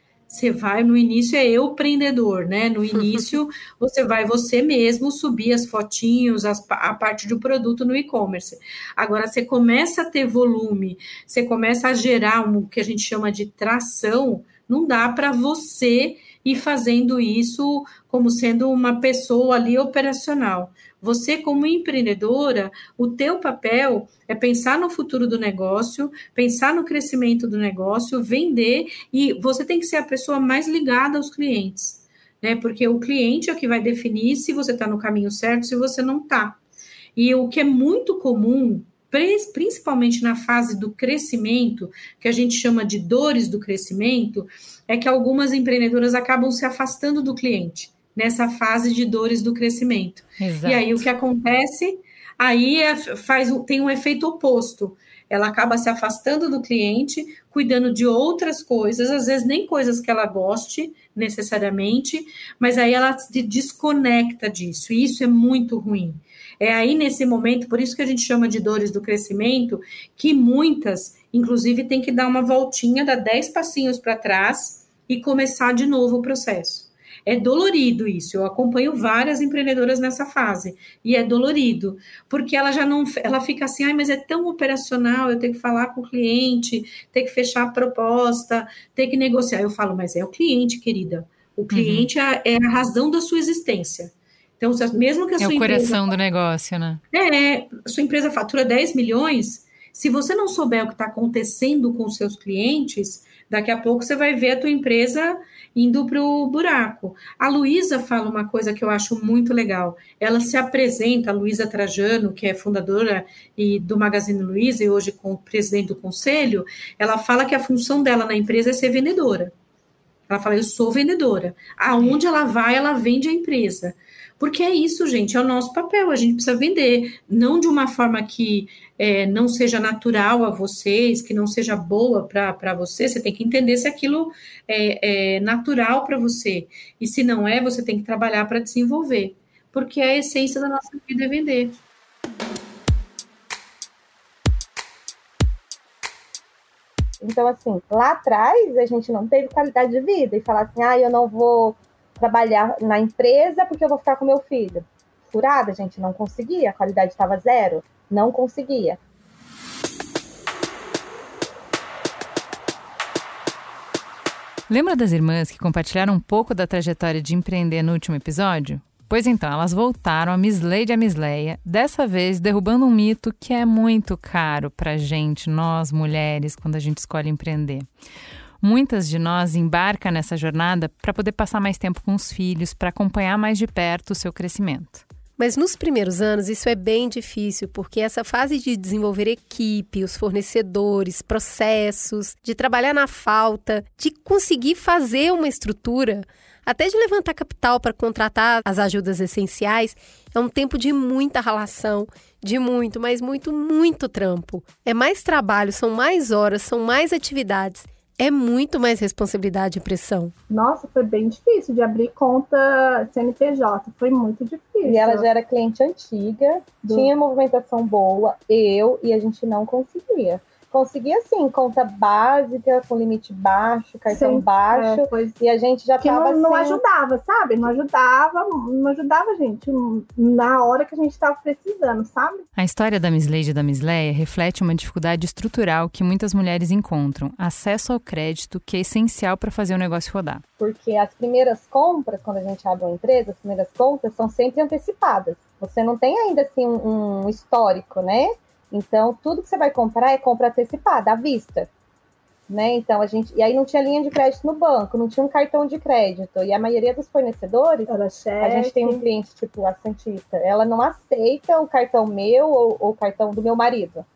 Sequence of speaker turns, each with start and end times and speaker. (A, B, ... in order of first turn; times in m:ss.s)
0:00.3-0:36.6 A
0:37.2-1:36.1 A
0:50.4-0:51.0 B
1:31.7-1:32.1 B
1:35.4-1:37.0 B
1:37.1-1:59.5 A
2:00.3-2:21.8 A
2:27.2-2:39.0 C
2:44.7-2:57.9 B
2:58.6-3:05.0 B
3:05.4-3:30.3 D
3:30.5-3:35.3 E
3:34.8-3:46.8 C
3:44.1-3:45.4 E
3:46.0-3:52.5 E
3:52.6-4:00.4 B
4:00.6-4:11.7 C
4:12.5-4:24.1 C
4:17.9-4:19.0 E